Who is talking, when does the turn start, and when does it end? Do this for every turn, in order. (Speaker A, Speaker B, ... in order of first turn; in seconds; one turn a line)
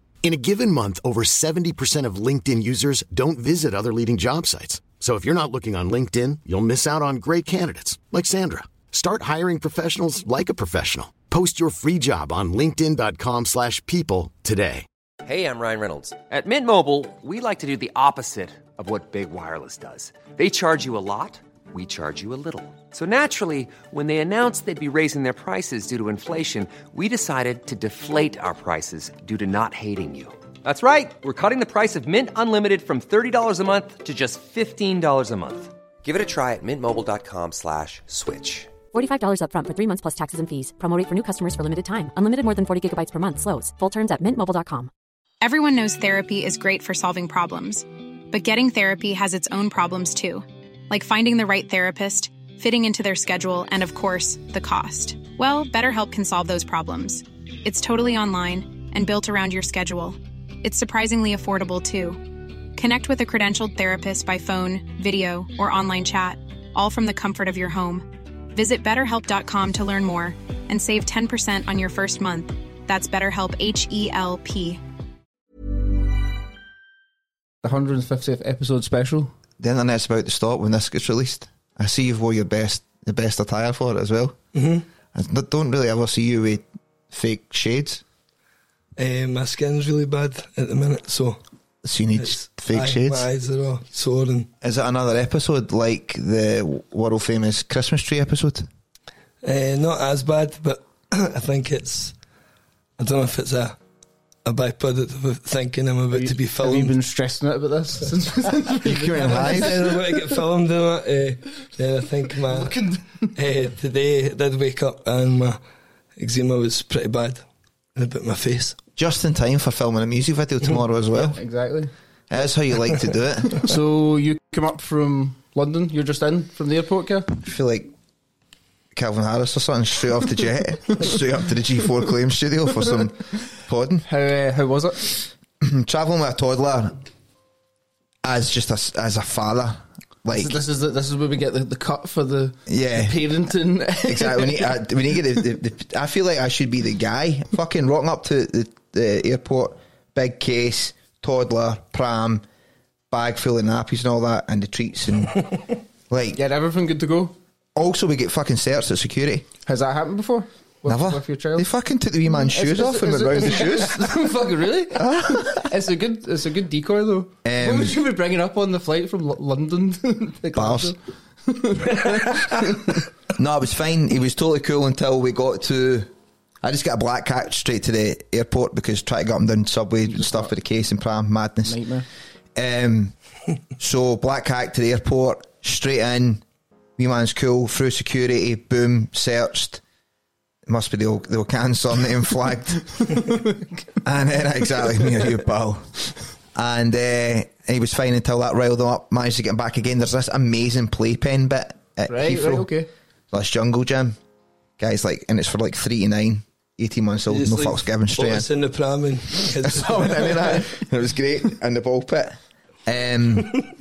Speaker A: 0.2-14.8
Speaker B: 15.2-38.7
Speaker C: 38.9-44.9
Speaker D: 45.4-74.8
Speaker E: 77.6-79.3
Speaker F: 79.6-84.4
Speaker G: 84.5-84.8
Speaker F: 85.1-88.0
Speaker G: 89.0-91.4
Speaker F: 91.8-93.3
Speaker G: 92.2-94.5
Speaker F: 94.6-98.7
Speaker G: 99.4-102.2
Speaker G: 103.0-103.8
Speaker G: 104.5-107.0
Speaker E: 106.1-109.7
Speaker F: 108.8-109.8
Speaker G: 109.2-112.8
Speaker E: 112.6-113.3
Speaker G: 113.3-115.6
Speaker G: 116.2-118.8
Speaker F: 119.0-121.4
Speaker E: 121.3-121.9
Speaker F: 122.3-123.7
Speaker E: 123.6-127.3
Speaker F: 127.3-127.9
Speaker F: 128.9-134.1
Speaker E: 134.0-135.2
Speaker F: 135.6-137.0
Speaker F: 138.2-140.6
Speaker E: 140.3-144.8
Speaker F: 142.7-143.3
Speaker F: 144.0-152.4
Speaker F: 153.1-155.4
Speaker F: 156.1-156.4
Speaker E: 156.3-157.3
Speaker F: 157.8-159.4
Speaker E: 159.7-161.7
Speaker F: 160.8-164.2
Speaker E: 162.3-172.7
Speaker F: 164.9-165.7
Speaker F: 167.4-167.9
Speaker F: 170.5-170.9
Speaker F: 173.3-176.1
Speaker F: 176.6-181.8
Speaker E: 180.1-180.5
Speaker E: 181.6-182.1
Speaker F: 182.5-183.2
Speaker F: 183.8-186.4
Speaker F: 187.0-189.8
Speaker F: 190.7-193.1
Speaker F: 194.0-202.8
Speaker E: 202.1-202.9
Speaker F: 203.3-204.2
Speaker F: 204.8-208.5
Speaker G: 207.3-210.6
Speaker F: 209.6-213.7